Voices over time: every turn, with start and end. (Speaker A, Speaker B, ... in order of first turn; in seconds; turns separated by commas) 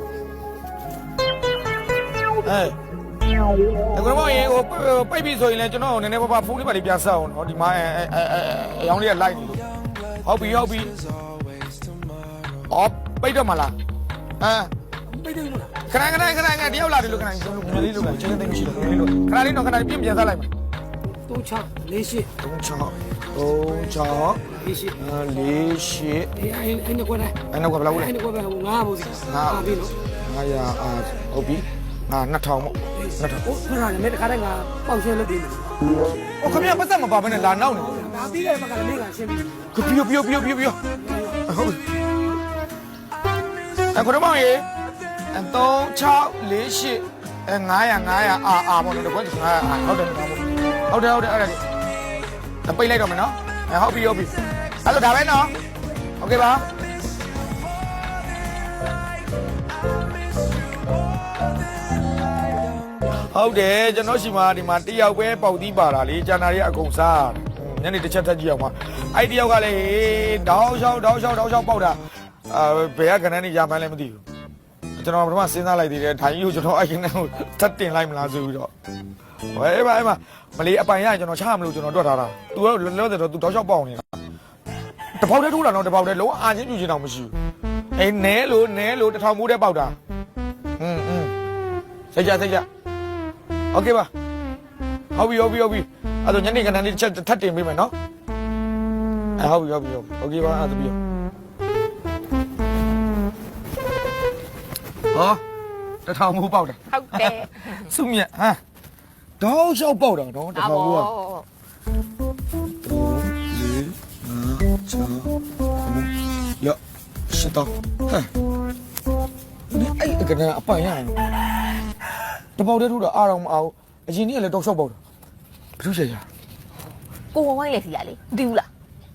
Speaker A: 2.4-2.8, Speaker A: 3.9-9.6, Speaker A: 10.2-11.0, Speaker A: 12.7-13.7, Speaker A: 14.4-14.7, Speaker B: 15.1-15.7, Speaker A: 15.8-20.5, Speaker B: 21.3-22.3, Speaker A: 22.4-24.4, Speaker B: 24.6-24.9, Speaker A: 24.9-26.3, Speaker B: 26.4-27.4, Speaker A: 27.5-28.1, Speaker B: 28.0-29.9, Speaker A: 29.1-33.5, Speaker B: 33.4-35.8, Speaker A: 36.4-38.0, Speaker B: 37.7-39.7, Speaker A: 39.7-40.8, Speaker B: 41.0-41.4, Speaker A: 41.4-41.9, Speaker A: 43.9-44.7, Speaker A: 45.3-51.6, Speaker A: 52.6-55.5, Speaker A: 56.2-56.7, Speaker A: 63.1-74.2, Speaker A: 74.9-78.7, Speaker A: 79.5-84.2, Speaker A: 85.1-87.3, Speaker A: 88.0-90.0, Speaker A: 90.8-91.3, Speaker A: 92.1-92.7, Speaker A: 93.7-94.1, Speaker A: 95.1-97.9, Speaker A: 99.4-101.0, Speaker A: 105.1-105.4, Speaker A: 106.0-108.6, Speaker C: 106.9-107.9, Speaker A: 109.4-111.1, Speaker C: 110.5-111.5, Speaker A: 112.8-118.3, Speaker A: 119.7-121.3, Speaker A: 122.5-125.0, Speaker A: 125.8-126.2, Speaker C: 127.3-128.7